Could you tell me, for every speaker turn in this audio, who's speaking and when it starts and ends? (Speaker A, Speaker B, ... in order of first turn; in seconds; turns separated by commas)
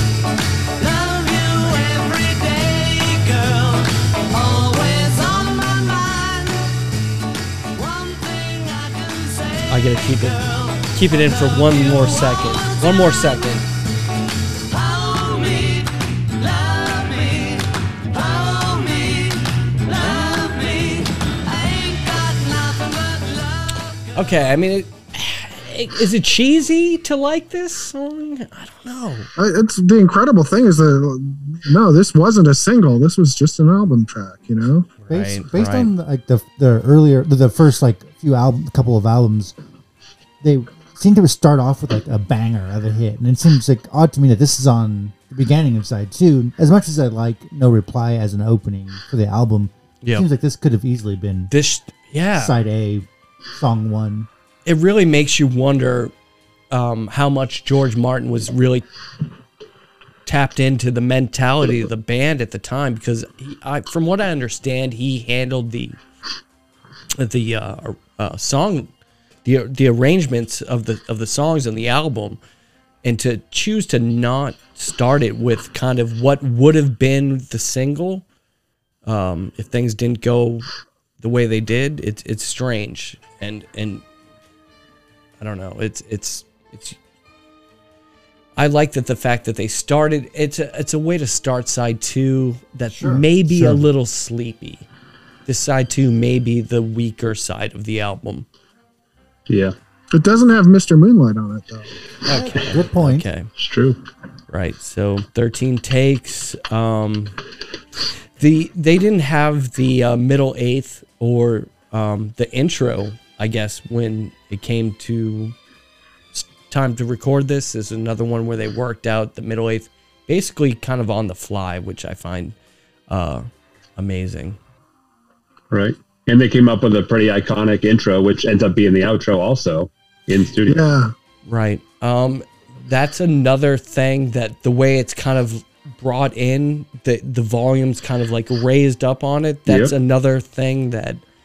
Speaker A: 0.8-6.7, Speaker A: 7.7-13.6, Speaker B: 9.7-13.6, Speaker A: 14.7-24.1, Speaker B: 20.0-20.3, Speaker B: 24.1-29.3, Speaker C: 29.4-34.9, Speaker B: 35.0-35.9, Speaker D: 35.1-39.5, Speaker D: 40.4-51.5, Speaker B: 50.0-50.3, Speaker B: 51.5-52.5, Speaker D: 52.4-54.3, Speaker B: 54.6-56.1, Speaker B: 56.7-58.8, Speaker B: 60.2-66.0, Speaker B: 67.2-68.9, Speaker B: 69.4-72.4, Speaker B: 73.0-78.2, Speaker B: 79.0-80.7, Speaker B: 81.2-84.0, Speaker B: 85.4-87.0, Speaker B: 88.6-94.9, Speaker D: 92.9-93.2, Speaker B: 95.5-98.5, Speaker E: 99.5-99.7, Speaker C: 100.1-101.9, Speaker B: 102.2-103.5, Speaker D: 102.3-103.3, Speaker E: 103.5-104.0, Speaker B: 104.5-107.3, Speaker B: 108.4-115.5, Speaker B: 116.3-122.5, Speaker B: 123.1-123.4, Speaker B: 124.0-124.6, Speaker E: 125.7-130.8, Speaker C: 130.7-131.1, Speaker B: 131.4-141.2, Speaker E: 139.7-139.9